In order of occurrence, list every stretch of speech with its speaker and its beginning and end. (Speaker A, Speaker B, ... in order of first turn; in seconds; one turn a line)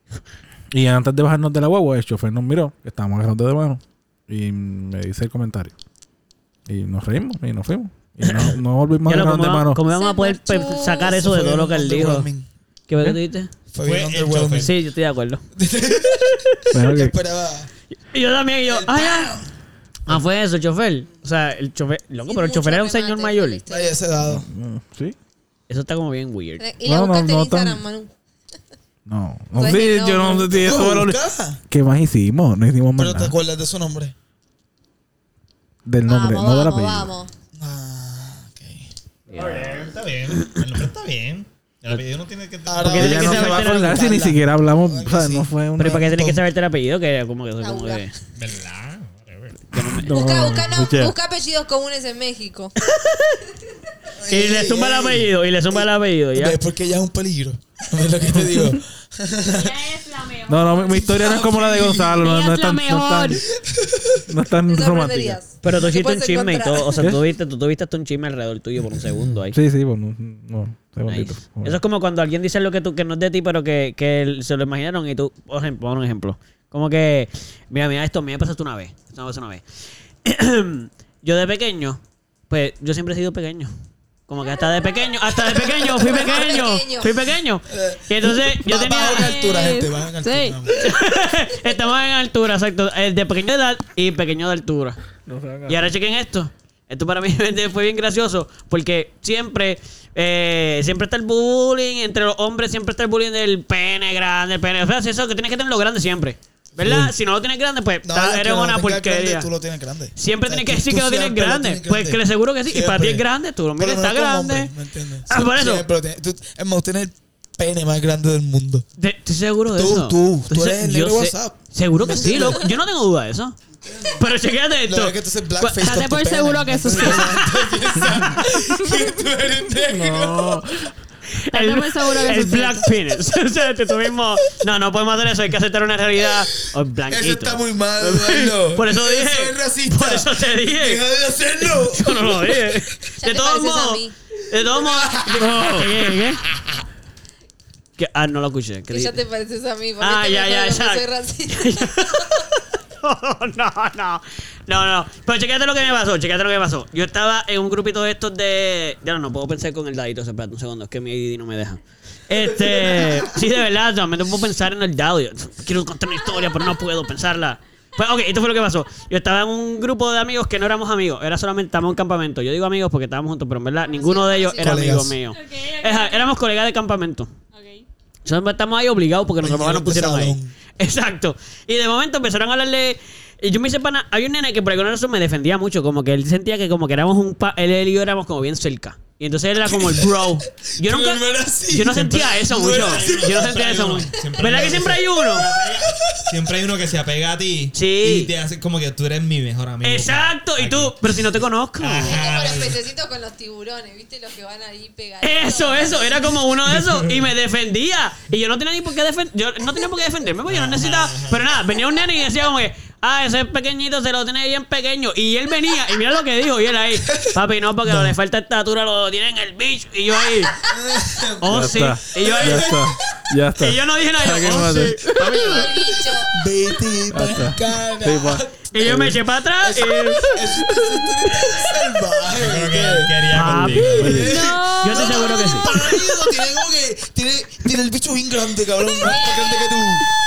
Speaker A: 0.7-5.7
Speaker A: 6.7-9.8
Speaker B: 8.2-12.3
Speaker C: 9.8-11.1
Speaker D: 11.0-12.5
Speaker B: 12.9-13.5
Speaker D: 13.7-14.7
Speaker E: 13.8-14.7
Speaker B: 14.6-15.4
Speaker D: 15.6-17.7
Speaker A: 16.7-17.1
Speaker B: 18.1-19.4
Speaker D: 18.6-19.5
Speaker B: 20.1-23.6
Speaker C: 22.3-24.0
Speaker D: 23.7-24.5
Speaker A: 24.2-25.1
Speaker B: 25.7-26.6
Speaker C: 26.6-28.1
Speaker A: 26.9-27.8
Speaker A: 29.1-33.4
Speaker C: 29.6-30.7
Speaker D: 30.6-31.6
Speaker D: 33.0-34.1
Speaker A: 35.9-37.1
Speaker C: 36.1-37.3
Speaker D: 37.5-38.9
Speaker B: 39.3-39.9
Speaker E: 39.3-43.4
Speaker D: 42.7-46.4
Speaker B: 42.8-44.1
Speaker A: 43.0-46.1
Speaker B: 45.8-48.2
Speaker C: 47.6-48.0
Speaker E: 48.4-49.6
Speaker B: 49.7-50.1
Speaker A: 49.8-51.1
Speaker C: 50.1-52.7
Speaker B: 52.8-53.4
Speaker D: 54.2-55.8
Speaker B: 54.3-56.6
Speaker D: 56.3-59.8
Speaker A: 58.4-58.7
Speaker F: 59.5-61.3
Speaker A: 60.5-63.4
Speaker D: 61.0-62.3
Speaker F: 62.2-63.4
Speaker D: 63.6-64.2
Speaker A: 64.3-65.4
Speaker C: 64.7-67.1
Speaker B: 65.6-69.6
Speaker A: 69.5-71.8
Speaker B: 71.1-79.6
Speaker B: 80.2-83.7
Speaker B: 84.3-89.4
Speaker C: 84.4-85.2
Speaker C: 85.8-87.2
Speaker D: 87.7-91.0
Speaker F: 89.1-90.6
Speaker B: 90.7-95.0
Speaker A: 95.3-95.9
Speaker B: 95.7-109.5
Speaker D: 106.8-107.2
Speaker D: 108.0-113.2
Speaker B: 110.2-114.7
Speaker D: 113.8-118.9
Speaker B: 115.3-115.9
Speaker B: 119.0-123.6
Speaker D: 119.8-122.7
Speaker D: 123.8-124.3
Speaker B: 124.2-125.8
Speaker D: 124.9-130.8
Speaker F: 125.8-127.6
Speaker B: 128.0-128.3
Speaker B: 130.0-130.6
Speaker A: 130.1-130.6
Speaker B: 131.3-141.1
Speaker F: 131.5-132.9
Speaker D: 137.1-142.8
Speaker B: 141.6-146.4
Speaker C: 143.2-144.2
Speaker D: 144.6-146.7
Speaker B: 148.0-149.1
Speaker C: 148.9-152.2
Speaker B: 150.0-177.3
Speaker D: 162.3-163.3
Speaker C: 173.8-174.8
Speaker D: 174.6-175.2
Speaker F: 175.3-176.3
Speaker F: 177.5-177.8
Speaker B: 178.2-195.5
Speaker D: 179.4-180.5
Speaker D: 189.6-194.1
Speaker E: 191.9-202.8
Speaker D: 195.4-196.5
Speaker B: 197.7-198.3
Speaker B: 199.8-202.2
Speaker C: 202.0-206.3
Speaker B: 205.2-220.6
Speaker E: 206.7-207.2
Speaker E: 210.5-211.6
Speaker D: 220.7-222.9
Speaker B: 221.4-222.8
Speaker A: 221.4-225.2
Speaker B: 223.6-225.7
Speaker C: 225.2-226.4
Speaker D: 225.2-240.1
Speaker A: 227.1-229.1
Speaker B: 228.7-230.4
Speaker E: 232.3-234.3
Speaker B: 233.3-235.7
Speaker A: 233.9-234.4
Speaker F: 234.2-236.0
Speaker C: 239.0-239.8